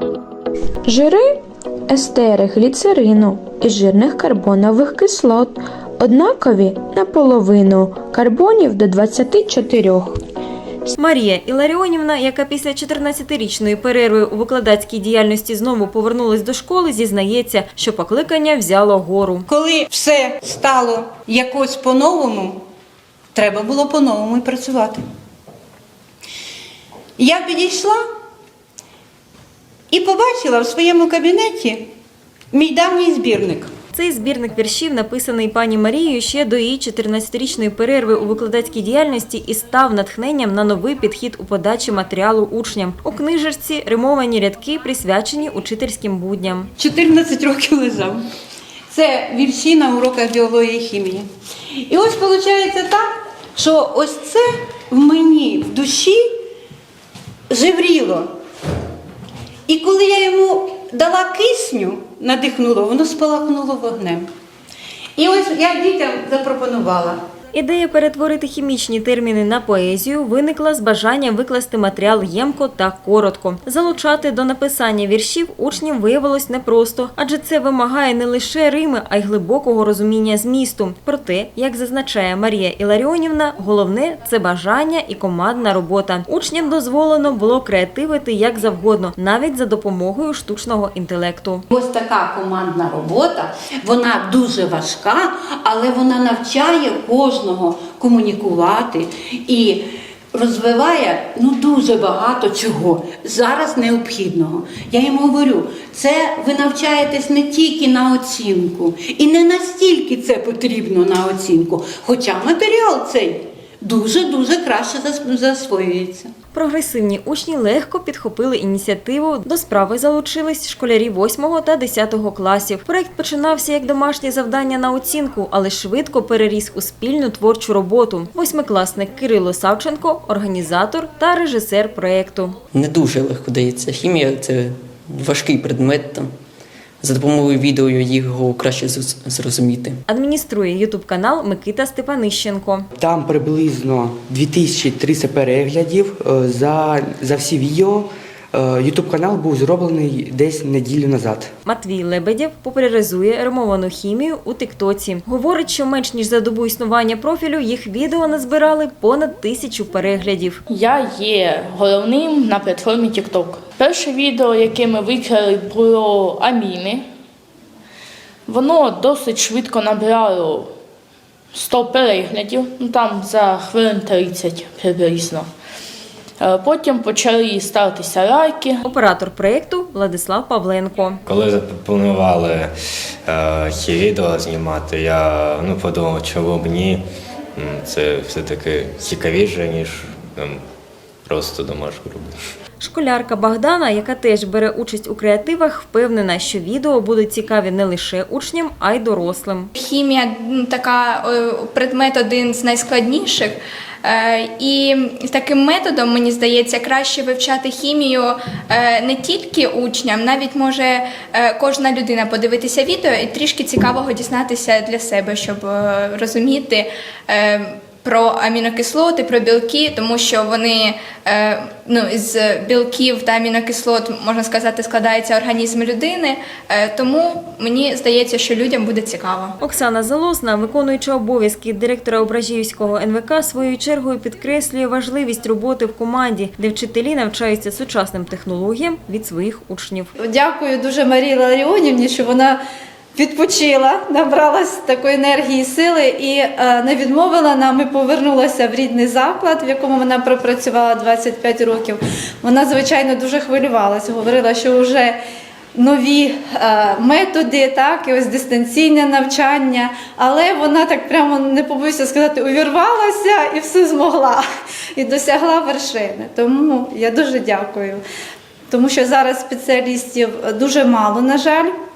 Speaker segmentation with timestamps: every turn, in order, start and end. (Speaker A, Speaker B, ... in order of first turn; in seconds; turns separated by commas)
Speaker A: 0.9-1.2, Speaker A: 1.9-10.2, Speaker B: 10.9-19.4, Speaker C: 19.5-22.6, Speaker C: 23.3-25.0, Speaker C: 27.2-28.0, Speaker C: 29.9-31.9, Speaker C: 32.5-33.7, Speaker B: 33.9-46.7, Speaker C: 46.8-48.2, Speaker C: 48.9-51.3, Speaker C: 51.9-56.2, Speaker C: 57.5-58.3, Speaker C: 59.7-64.3, Speaker C: 65.2-67.2, Speaker B: 67.5-91.6, Speaker C: 91.7-116.3, Speaker B: 116.5-132.6, Speaker D: 132.7-136.3, Speaker D: 137.0-140.0, Speaker B: 140.1-142.9, Speaker E: 142.9-151.5, Speaker B: 151.7-160.6, Speaker F: 160.7-167.0, Speaker F: 168.5-170.7, Speaker F: 171.5-175.5, Speaker F: 176.4-178.8, Speaker B: 178.8-181.2, Speaker G: 181.2-182.7, Speaker G: 183.3-187.0, Speaker G: 187.6-190.6, Speaker G: 191.2-192.3, Speaker B: 192.8-199.7, Speaker H: 199.8-229.5, Speaker B: 229.6-240.1, Speaker I: 240.2-242.6, Speaker I: 243.1-255.2, Speaker I: 255.7-264.4, Speaker I: 264.9-268.0, Speaker I: 268.7-271.7